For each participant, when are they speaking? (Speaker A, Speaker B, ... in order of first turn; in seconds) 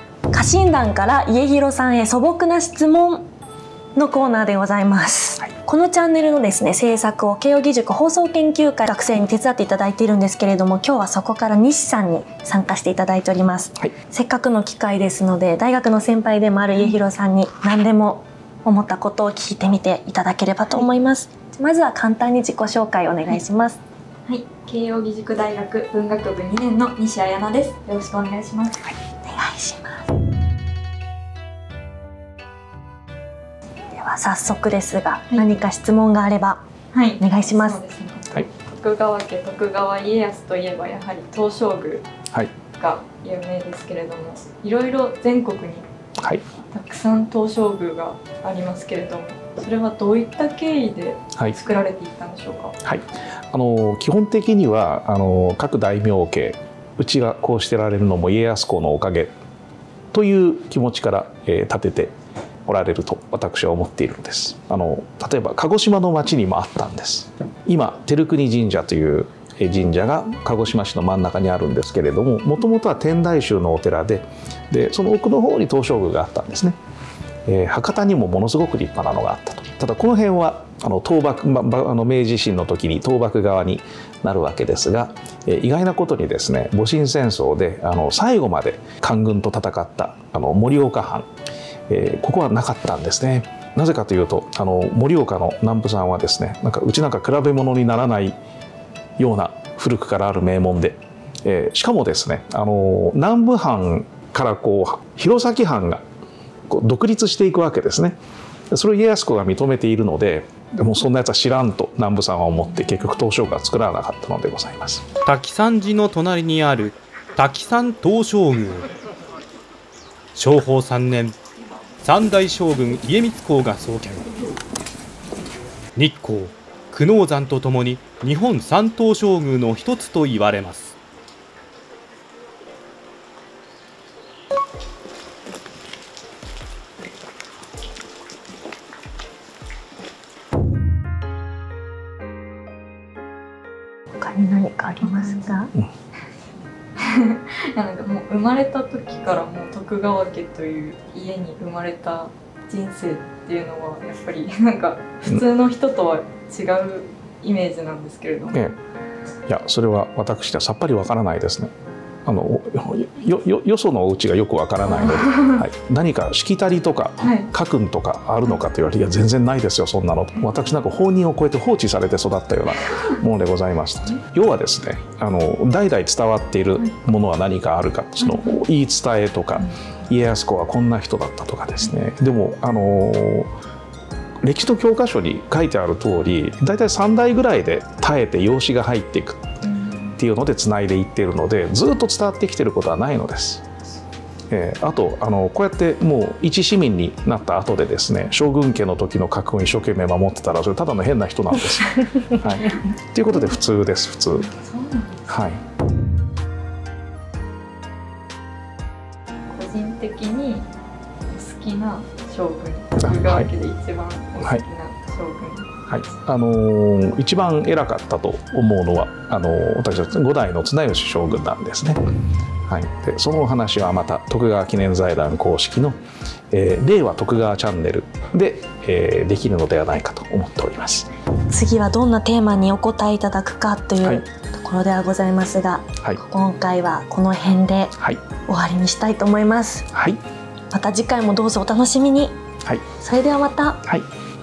Speaker A: 0.3-3.2, 4.0-23.8, 29.2-30.1, 33.9-36.6, 37.2-37.8, 144.2-145.7, 231.5-239.9, 240.7-242.3, 242.9-243.8
Speaker B: 24.3-28.9, 36.9-42.0, 42.8-45.9, 46.7-52.7, 145.0-145.6, 147.0-158.7, 164.8-165.7, 167.2-167.5, 178.2-178.6, 189.6-190.1, 204.4-205.4, 209.5-210.7, 211.3-215.8
Speaker C: 52.8-59.3, 60.1-62.1, 62.6-76.8, 77.5-91.3, 91.9-98.3, 99.2-106.0, 106.7-108.2, 108.7-115.0, 159.5-161.7, 162.2-183.5, 184.4-189.5, 190.2-193.6, 194.5-204.5, 205.3-205.6, 213.0-213.5, 215.9-222.0, 222.7-226.0, 226.5-231.1, 239.9-240.2, 242.6-242.9
Speaker D: 115.2-118.9, 120.3-121.3, 122.0-124.3, 125.9-130.9